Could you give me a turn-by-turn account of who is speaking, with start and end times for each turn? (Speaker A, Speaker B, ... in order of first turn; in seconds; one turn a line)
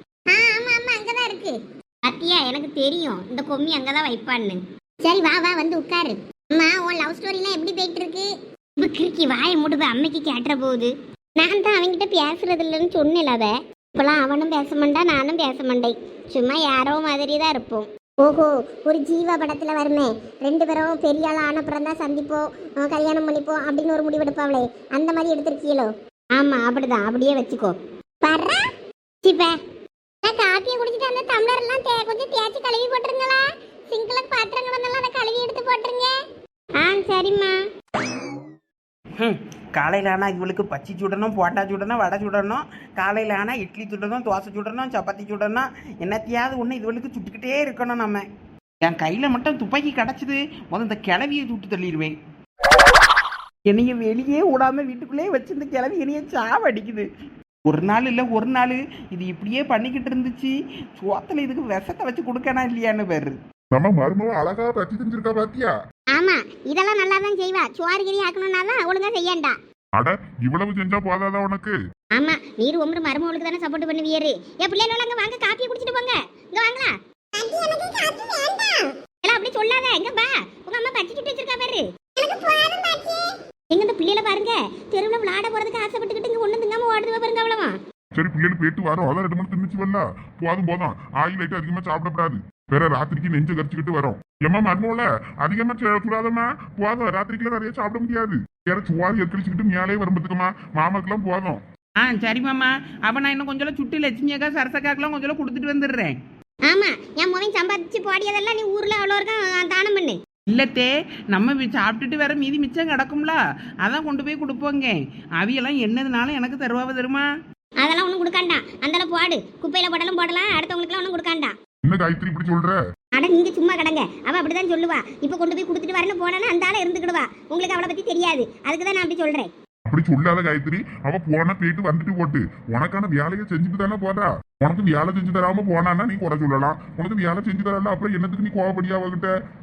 Speaker A: 0.3-28.6
Speaker A: 29.2-29.5
Speaker A: 30.2-36.1
Speaker A: 36.8-37.6
Speaker B: 39.2-48.2
Speaker B: 48.8-52.1
Speaker B: 53.7-57.1
Speaker B: 57.6-63.4
Speaker C: 63.7-65.7
Speaker A: 66.1-69.6
Speaker C: 69.9-71.8
Speaker A: 72.1-87.8
Speaker C: 88.1-101.6
Speaker B: 102.0-106.2
Speaker A: 106.7-110.2
Speaker B: 110.5-117.3
Speaker A: 117.8-121.5
Speaker C: 121.8-122.8
Speaker A: 123.1-129.5
Speaker C: 129.9-139.3